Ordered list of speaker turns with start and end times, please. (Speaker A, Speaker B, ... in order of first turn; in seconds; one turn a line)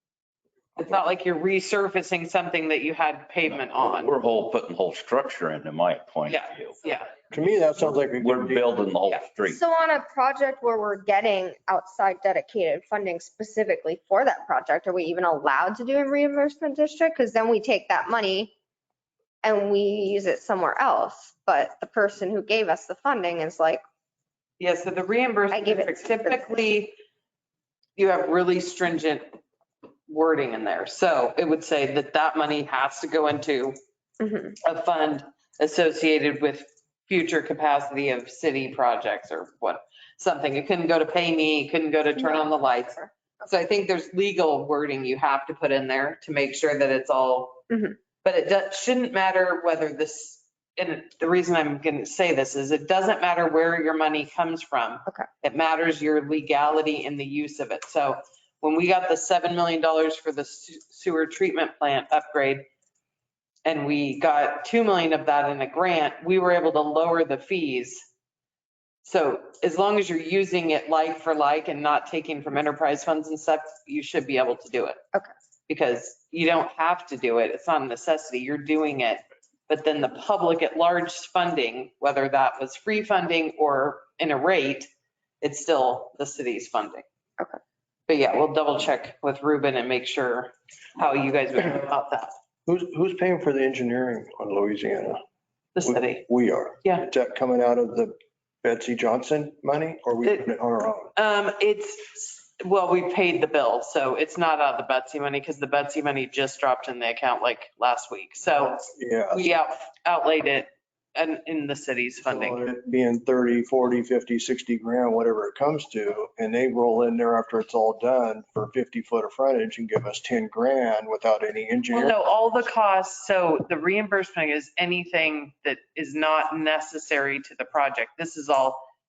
Speaker A: 0.8-4.1
Speaker B: 3.7-6.8
Speaker A: 6.3-7.1
Speaker C: 7.3-8.5
Speaker B: 7.8-9.6
Speaker D: 9.5-18.5
Speaker D: 19.4-23.8
Speaker A: 24.6-26.9
Speaker D: 25.5-26.4
Speaker A: 28.0-29.2
Speaker A: 30.1-33.8
Speaker D: 34.2-34.6
Speaker A: 34.6-47.6
Speaker D: 47.7-48.0
Speaker A: 48.2-62.6
Speaker A: 63.6-68.0
Speaker A: 69.0-75.0
Speaker A: 75.7-84.9
Speaker A: 85.4-87.0
Speaker A: 88.1-92.3
Speaker C: 92.7-95.2
Speaker A: 95.8-96.3
Speaker C: 96.2-101.1
Speaker A: 101.2-112.6
Speaker C: 109.0-109.5
Speaker C: 112.3-122.1
Speaker A: 121.9-128.8